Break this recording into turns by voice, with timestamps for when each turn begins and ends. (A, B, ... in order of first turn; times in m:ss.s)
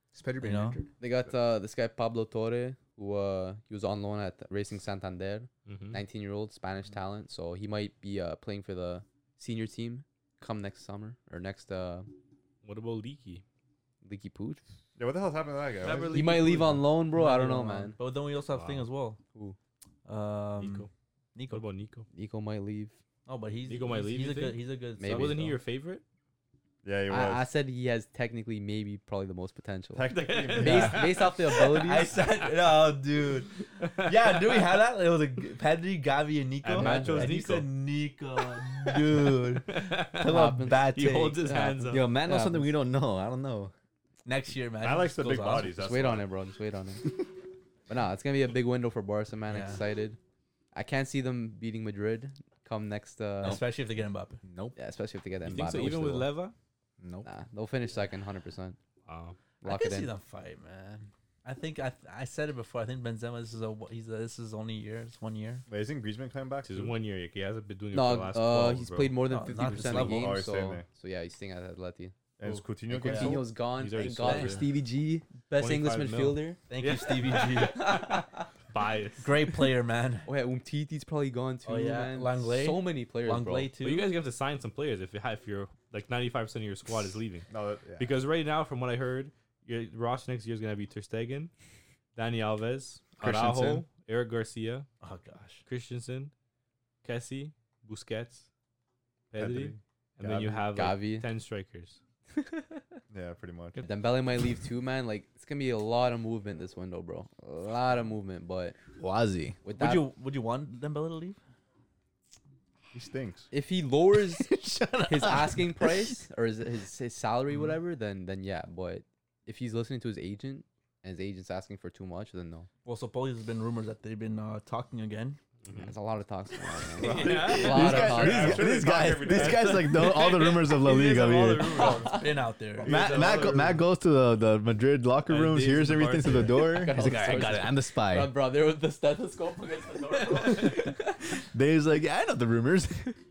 0:00.1-0:00.9 A
0:00.4-0:00.8 B
0:01.0-0:12.1 C
0:05.6-0:06.0 D
0:12.6-0:13.4 D
0:14.0-0:14.6 C
0:15.0-0:16.1 E
0:15.8-0:16.9 D
0:16.1-0:18.0 C
0:17.1-0:19.2 B
0:18.5-0:18.9 D
0:20.0-0:21.6 B
0:20.6-0:20.9 D
0:21.5-0:22.1 D
0:22.1-0:23.0 C
0:23.2-0:25.6 B
0:23.7-0:26.0 D
0:25.0-0:25.5 C
0:26.8-0:27.5 E
0:27.1-0:32.2 C
0:29.9-0:31.1 E
0:30.1-0:31.6 D
0:30.4-0:41.6 B
0:34.0-0:34.6 D
0:36.6-0:37.7 D
0:36.8-0:37.3 C
0:38.6-0:42.1 D
0:40.2-0:42.7 C
0:41.9-0:43.7 A
0:44.2-0:45.7 B
0:44.8-0:46.2 E
0:45.7-0:47.2 C
0:47.9-0:50.2 C
0:49.5-0:49.8 B
0:50.7-0:53.6 C
0:53.4-0:54.4 B
0:54.4-0:54.7 A
0:54.7-0:56.3 C
0:55.4-0:56.5 D
0:57.0-0:57.3 A
0:57.2-0:58.8 C
0:59.0-0:59.4 D
0:59.6-1:00.1 C
0:59.6-1:05.6 B
1:05.7-1:06.9 E
1:06.6-1:09.2 D
1:07.9-1:12.1 C
1:09.3-1:10.4 B
1:09.7-1:10.8 E
1:12.4-1:13.5 E
1:12.9-1:16.6 C
1:13.0-1:13.4 B
1:13.7-1:14.7 D
1:14.2-1:14.7 B
1:15.6-1:19.7 D
1:16.7-1:18.2 B
1:19.2-1:20.3 B
1:20.2-1:23.7 C
1:21.6-1:24.1 B
1:23.8-1:31.5 D
1:27.5-1:28.1 E
1:32.2-1:34.9 D
1:33.2-1:33.8 A
1:35.0-1:35.6 B
1:35.6-1:36.3 D
1:37.0-1:38.5 D
1:39.3-1:42.0 D
1:39.3-1:40.6 E
1:40.7-1:41.3 C
1:42.4-1:42.8 C
1:43.1-1:43.8 E
1:43.8-1:48.8 C
1:49.0-1:49.6 A
1:49.6-1:50.1 C
1:49.7-1:51.4 B
1:52.9-1:53.5 E
1:53.5-1:54.5 C
1:54.3-1:56.1 A
1:55.0-2:02.7 C
2:02.8-2:05.4 B
2:05.6-2:05.9 D
2:05.7-2:08.6 C
2:07.0-2:13.8 B
2:07.0-2:08.1 D
2:07.4-2:11.9 A
2:07.6-2:09.8 E
2:09.3-2:12.2 D
2:11.7-2:12.3 C
2:12.8-2:18.3 A
2:12.8-2:13.7 E
2:13.0-2:13.4 D
2:15.2-2:16.9 D
2:16.6-2:21.2 C
2:21.5-2:23.2 A